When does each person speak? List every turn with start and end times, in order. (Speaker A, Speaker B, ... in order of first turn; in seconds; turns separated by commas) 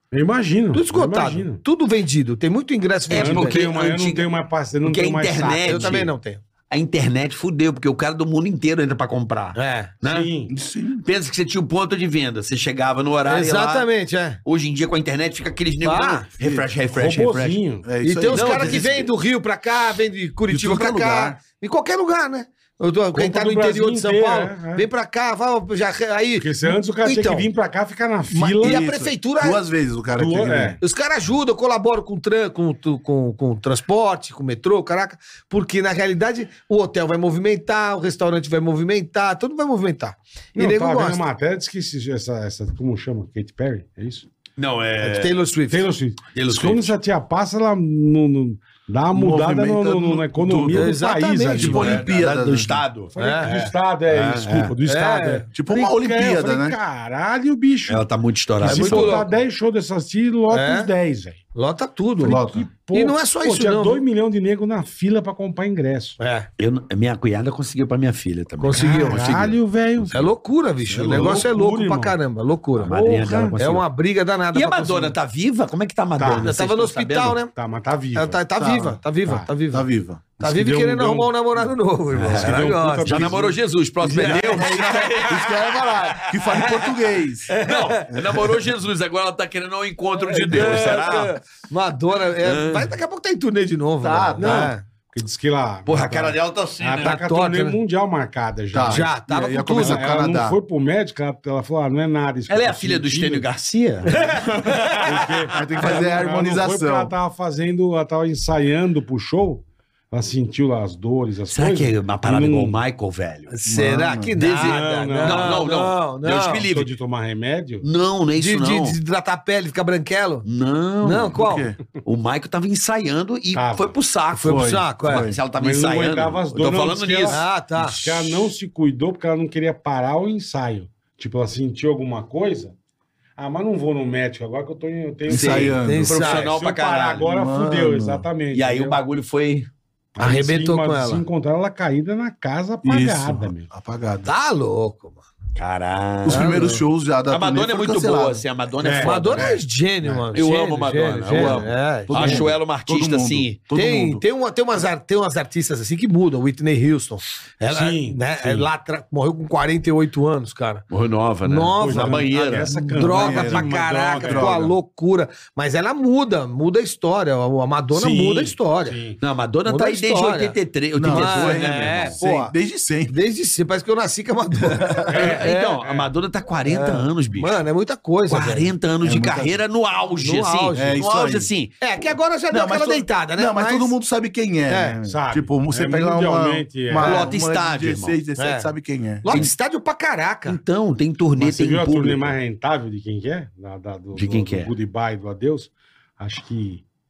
Speaker A: 0.1-1.6, Speaker B: 0.7-3.6, Speaker C: 3.1-4.3, Speaker A: 3.1-6.0, Speaker C: 4.8-6.1, Speaker B: 5.6-6.4, Speaker C: 6.7-10.3, Speaker B: 9.5-9.9, Speaker A: 10.0-10.5, Speaker D: 10.5-11.1, Speaker C: 11.0-13.9, Speaker B: 13.2-14.4, Speaker C: 14.4-17.6, Speaker B: 15.8-16.2, Speaker D: 16.4-16.7, Speaker A: 16.9-17.8, Speaker D: 17.8-19.1, Speaker B: 18.0-27.5, Speaker C: 18.3-19.0, Speaker D: 20.5-21.4, Speaker A: 23.1-24.9, Speaker A: 26.4-28.8, Speaker B: 28.3-29.6, Speaker D: 28.6-30.8, Speaker A: 30.1-30.8, Speaker B: 30.8-41.2, Speaker A: 40.5-44.3, Speaker C: 44.6-45.4, Speaker B: 45.0-45.9, Speaker A: 45.7-52.0, Speaker C: 46.3-46.9, Speaker D: 49.1-51.0, Speaker B: 50.7-52.0, Speaker D: 51.6-52.8, Speaker C: 51.6-53.5, Speaker B: 53.1-53.7, Speaker A: 53.1-58.0, Speaker C: 54.1-54.7, Speaker B: 54.9-55.5, Speaker D: 55.5-56.8, Speaker C: 57.9-59.2, Speaker A: 58.6-61.4, Speaker B: 58.6-59.3, Speaker B: 60.5-60.9, Speaker B: 61.5-62.4, Speaker A: 62.2-66.2, Speaker D: 62.2-62.7, Speaker B: 62.9-64.0, Speaker B: 66.2-66.5, Speaker C: 66.6-70.1, Speaker B: 68.6-69.3, Speaker A: 68.7-70.3, Speaker B: 70.1-72.9, Speaker A: 70.9-72.2, Speaker D: 71.0-71.4, Speaker C: 72.8-73.8, Speaker A: 72.8-73.6, Speaker B: 73.6-75.1, Speaker C: 74.5-77.4, Speaker A: 76.2-76.5, Speaker B: 76.4-77.5, Speaker A: 77.5-78.4, Speaker B: 78.1-79.8, Speaker D: 78.5-79.0, Speaker D: 79.7-80.3, Speaker B: 80.4-83.3, Speaker A: 80.4-81.7, Speaker C: 82.1-86.8, Speaker A: 82.3-83.6, Speaker B: 84.0-85.1, Speaker A: 84.2-84.5, Speaker D: 84.2-87.5, Speaker B: 87.5-88.0, Speaker C: 87.6-91.3, Speaker D: 88.1-88.5, Speaker B: 90.2-94.8, Speaker C: 92.4-92.9, Speaker D: 94.0-94.7, Speaker A: 94.4-103.5, Speaker C: 95.8-97.2, Speaker B: 97.0-97.8, Speaker D: 98.7-100.6, Speaker B: 98.8-100.0, Speaker C: 102.5-106.0, Speaker B: 104.1-105.0, Speaker A: 105.0-112.8, Speaker D: 105.5-107.1, Speaker C: 111.5-113.5, Speaker B: 113.5-116.6, Speaker D: 113.6-114.3, Speaker C: 114.4-116.9, Speaker A: 114.4-115.7, Speaker A: 116.6-117.8, Speaker C: 117.8-119.0, Speaker B: 118.4-120.5, Speaker C: 120.4-121.4, Speaker B: 121.0-121.6, Speaker D: 121.3-121.8, Speaker C: 122.0-127.4, Speaker A: 123.5-123.9, Speaker B: 124.4-125.2, Speaker D: 124.4-125.4, Speaker A: 125.5-132.7, Speaker B: 127.3-128.0, Speaker A: 133.4-139.0, Speaker D: 135.3-136.3, Speaker C: 135.3-137.2, Speaker B: 135.8-136.5, Speaker D: 137.2-138.2, Speaker C: 138.5-139.7, Speaker A: 140.2-143.7, Speaker B: 140.2-141.2, Speaker D: 142.8-144.3, Speaker B: 144.2-145.2, Speaker C: 145.6-146.7, Speaker D: 146.2-148.4, Speaker B: 146.3-146.8, Speaker C: 147.3-149.6, Speaker A: 148.8-150.4, Speaker B: 149.0-152.4, Speaker C: 150.3-153.6, Speaker D: 151.4-154.2, Speaker B: 153.7-160.8, Speaker A: 157.6-158.7, Speaker C: 160.9-162.7, Speaker B: 161.4-169.0, Speaker A: 161.8-164.7, Speaker D: 162.9-164.7, Speaker A: 167.9-169.2, Speaker C: 169.2-172.2, Speaker B: 169.7-170.6, Speaker D: 171.0-173.2, Speaker B: 171.1-172.5, Speaker B: 173.1-175.8, Speaker A: 175.1-176.1, Speaker C: 175.1-177.6, Speaker B: 176.7-178.7, Speaker C: 178.3-181.8, Speaker D: 179.0-179.6, Speaker B: 180.2-181.1, Speaker D: 180.7-181.5, Speaker B: 181.8-183.9, Speaker D: 182.5-189.4, Speaker B: 184.7-184.9, Speaker A: 185.0-187.2, Speaker C: 187.0-188.2, Speaker B: 188.4-188.7, Speaker B: 189.2-190.6, Speaker C: 190.5-192.3, Speaker A: 191.4-196.8, Speaker C: 194.1-194.7